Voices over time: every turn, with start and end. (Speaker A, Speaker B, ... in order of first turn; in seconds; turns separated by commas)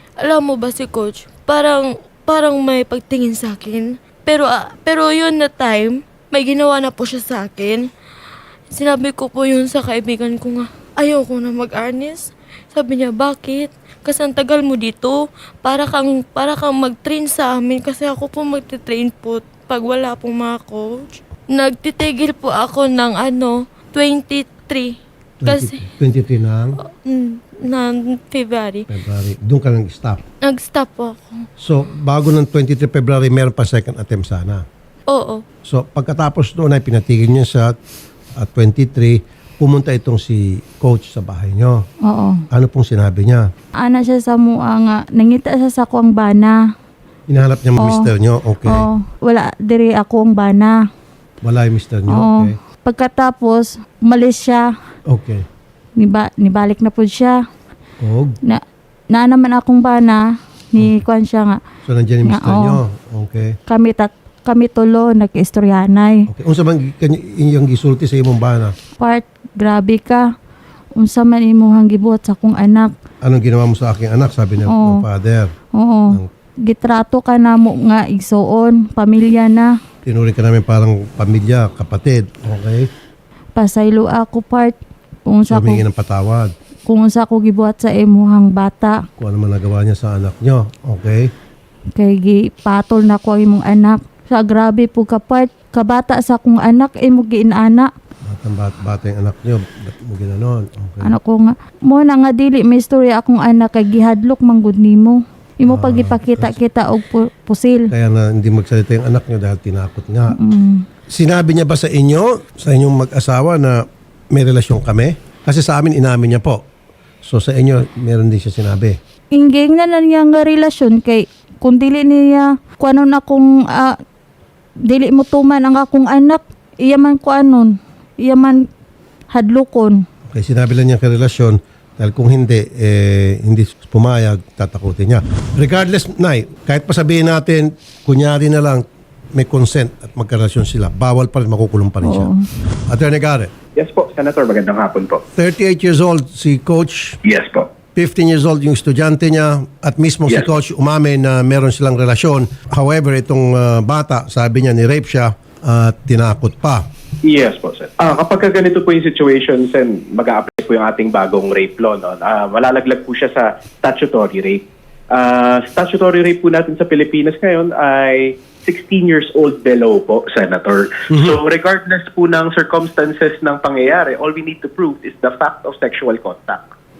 Speaker A: 0.2-7.9, Speaker A: 8.7-25.8, Speaker B: 25.4-26.8, Speaker A: 26.9-28.9, Speaker B: 28.9-30.2, Speaker A: 30.4-31.4, Speaker B: 31.6-34.6, Speaker A: 35.1-35.4, Speaker B: 35.7-37.7, Speaker B: 38.4-41.8, Speaker C: 42.0-42.4, Speaker B: 42.5-43.5, Speaker C: 43.8-46.6, Speaker B: 47.3-48.8, Speaker C: 47.8-48.1, Speaker C: 48.6-50.8, Speaker B: 51.4-52.5, Speaker C: 52.1-54.7, Speaker B: 55.1-55.5, Speaker C: 56.0-57.4, Speaker B: 58.0-58.4, Speaker C: 58.4-61.6, Speaker B: 61.9-63.6, Speaker C: 62.2-62.8, Speaker C: 63.7-66.3, Speaker B: 66.3-68.7, Speaker C: 69.0-70.3, Speaker C: 71.0-72.9, Speaker B: 73.2-75.5, Speaker C: 74.7-75.0, Speaker C: 75.7-79.7, Speaker B: 80.0-82.9, Speaker C: 83.6-85.8, Speaker B: 85.5-86.5, Speaker C: 86.9-89.0, Speaker B: 89.2-91.3, Speaker C: 92.0-97.9, Speaker B: 98.3-101.2, Speaker C: 101.0-107.9, Speaker B: 105.7-106.6, Speaker B: 107.9-110.4, Speaker C: 110.3-110.8, Speaker B: 111.1-116.6, Speaker B: 117.2-119.0, Speaker C: 119.3-124.0, Speaker C: 124.9-128.7, Speaker C: 129.3-130.1, Speaker B: 130.3-138.8, Speaker B: 139.3-142.3, Speaker C: 142.0-142.4, Speaker B: 142.9-143.5, Speaker D: 143.8-145.2, Speaker B: 145.4-147.2, Speaker D: 147.2-147.7, Speaker B: 147.9-156.8, Speaker D: 157.2-176.6